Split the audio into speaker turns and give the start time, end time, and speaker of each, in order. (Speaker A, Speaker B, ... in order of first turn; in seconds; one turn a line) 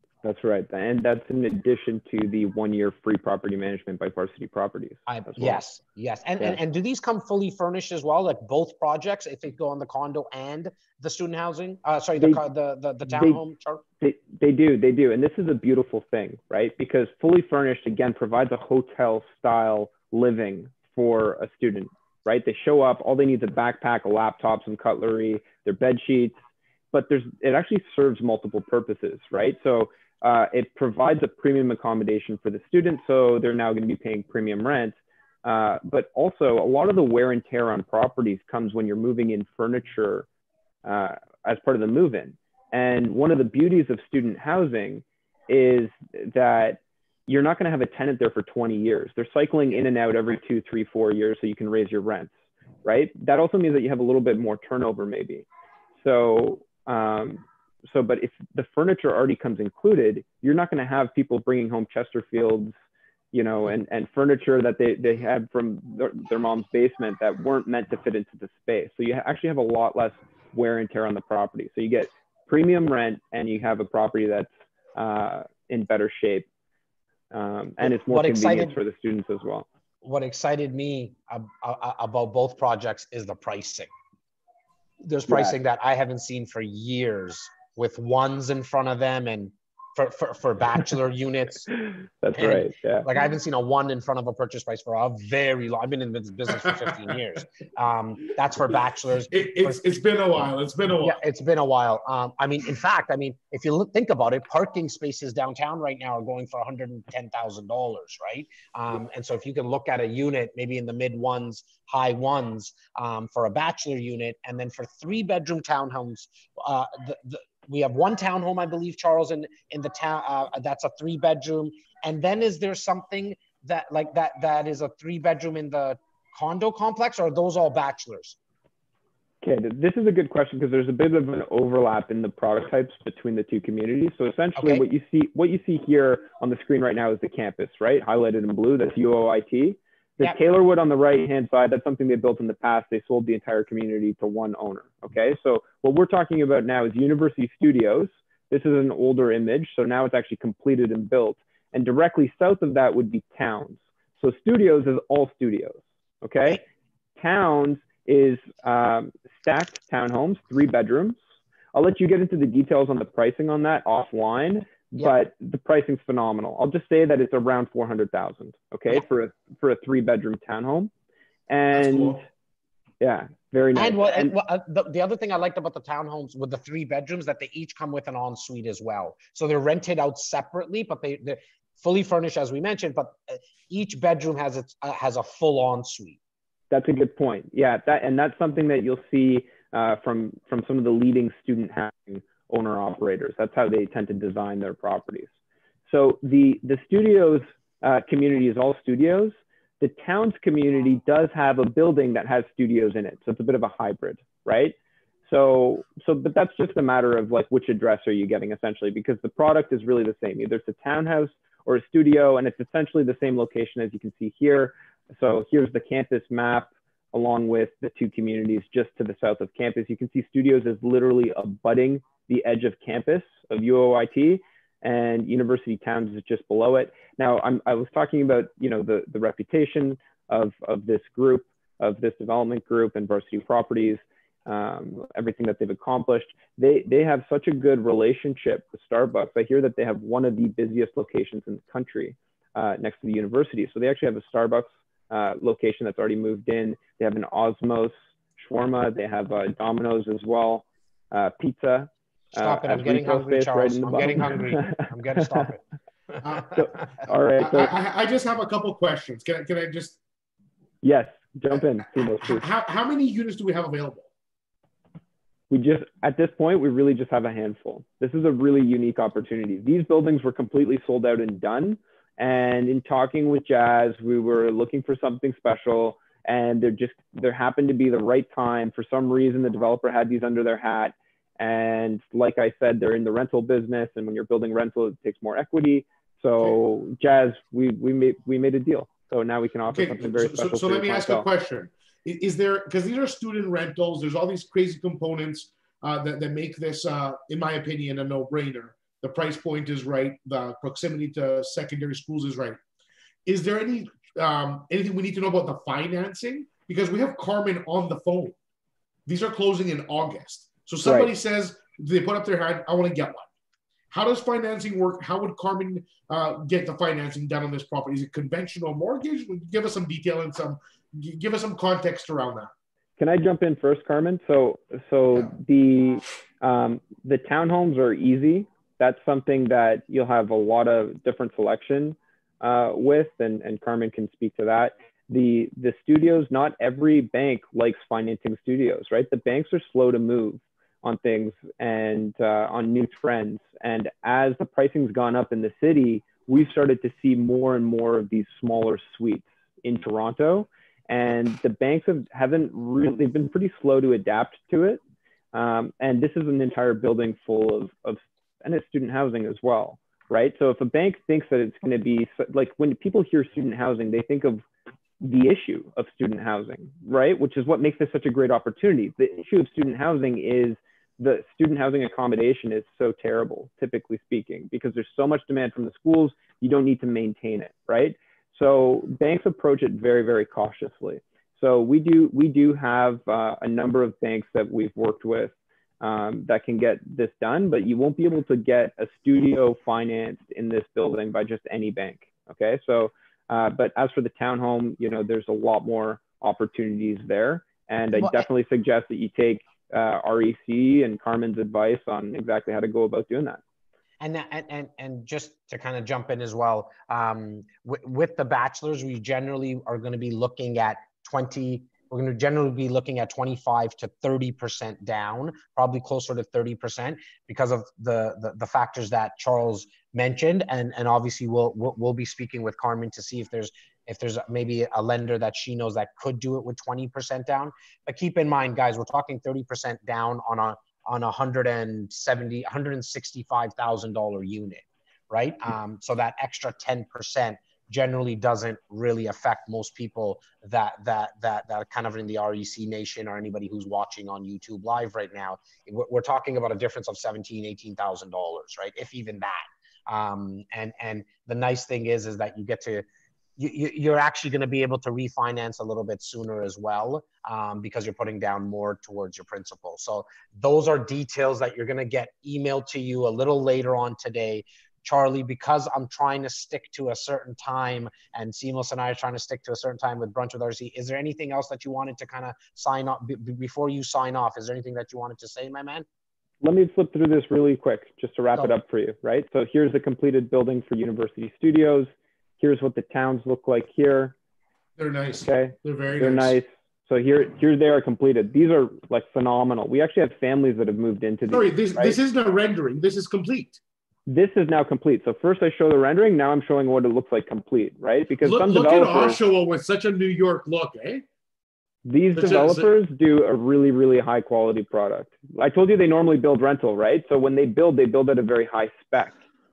Speaker A: 0.2-5.6
Speaker B: 5.1-13.8
Speaker A: 13.1-13.4
Speaker A: 14.0-40.3
Speaker A: 40.8-55.5
Speaker A: 56.0-62.8
Speaker A: 63.3-76.5
Speaker A: 77.3-79.7
Speaker B: 77.8-78.8
Speaker B: 80.0-83.9
Speaker B: 85.0-91.7
Speaker A: 85.3-85.5
Speaker A: 91.8-93.1
Speaker B: 92.3-99.8
Speaker C: 99.3-101.2
Speaker B: 101.0-128.4
Speaker A: 129.4-156.6
Speaker B: 134.5-134.8
Speaker A: 157.2-161.2
Speaker A: 161.7-170.9
Speaker A: 171.5-172.2
Speaker C: 171.7-172.2
Speaker A: 173.0-174.3
Speaker B: 173.7-186.2
Speaker A: 186.7-195.3
Speaker A: 195.9-204.8
Speaker A: 205.3-255.5
Speaker B: 252.3-255.6
Speaker C: 256.2-256.6
Speaker A: 256.5-257.8
Speaker C: 257.4-260.0
Speaker A: 260.8-262.4
Speaker C: 262.2-264.1
Speaker A: 265.5-291.3
Speaker C: 289.7-302.6
Speaker C: 303.2-308.3
Speaker C: 309.1-313.3
Speaker A: 310.8-311.1
Speaker C: 313.9-322.5
Speaker A: 323.0-354.8
Speaker A: 355.3-364.4
Speaker A: 365.0-403.4
Speaker B: 397.9-398.3
Speaker B: 404.0-452.8
Speaker B: 453.4-475.9
Speaker A: 476.4-484.1
Speaker C: 484.8-486.4
Speaker A: 485.2-492.0
Speaker C: 491.3-493.6
Speaker A: 494.1-499.2
Speaker C: 498.2-501.0
Speaker A: 501.9-509.2
Speaker C: 502.1-502.7